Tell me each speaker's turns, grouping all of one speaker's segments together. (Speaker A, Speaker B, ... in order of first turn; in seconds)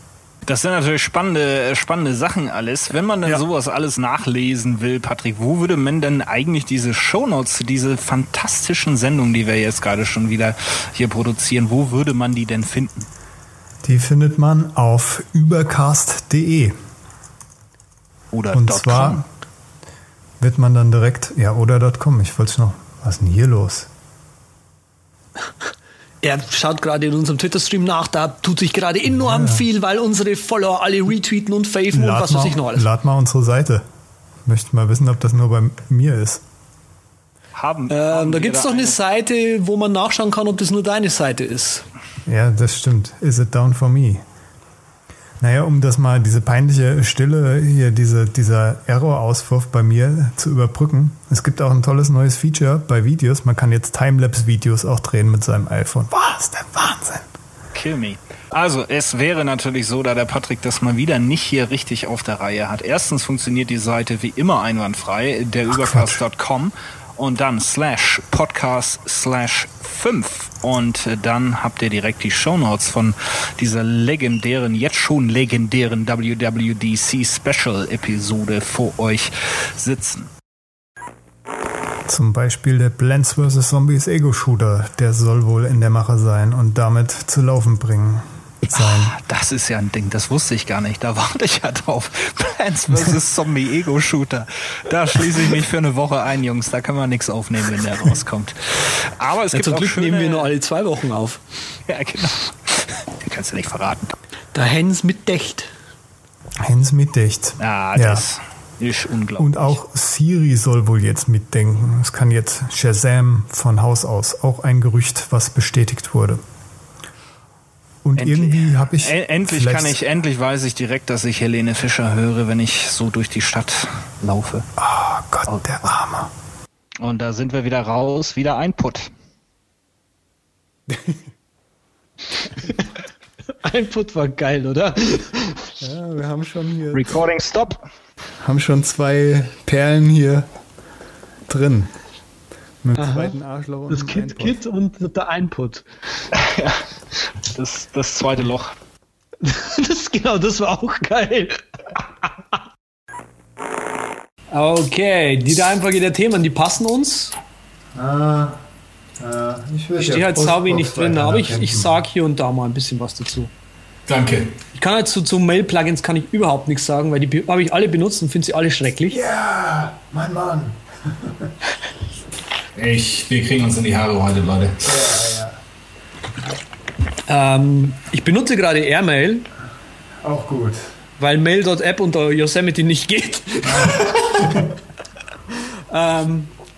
Speaker A: 0.5-13.1, 18.3-19.3, 37.6-39.0, 57.7-80.3, 88.7-100.5, 101.9-104.2, 107.6-109.8, 118.2-124.7, 127.0-129.1, 136.9-137.8, 146.3-146.8, 147.5-148.7, 164.1-164.6, 172.8-174.9
Speaker B: 13.8-16.8, 18.5-19.2, 20.4-23.9, 29.1-29.6, 31.9-33.9, 34.5-36.4, 42.3-44.2, 45.4-57.3, 65.7-66.2, 82.1-89.2, 106.6-108.3, 109.4-116.4, 118.0-120.0, 124.8-126.3, 130.9-131.2, 135.8-137.2, 138.4-140.5, 141.5-141.9, 142.8-144.6, 157.9-158.6, 159.2-162.0, 169.1-171.5, 174.8-175.6, 180.2-180.9, 183.6-184.7
Speaker C: 26.2-32.9, 37.9-41.9, 99.5-101.4, 104.5-105.7, 133.6-135.6, 143.0-143.3, 143.9-145.9, 149.4-151.6, 154.5-157.3, 160.0-163.5, 164.8-169.2, 177.3-179.5, 181.2-184.1, 185.9-186.5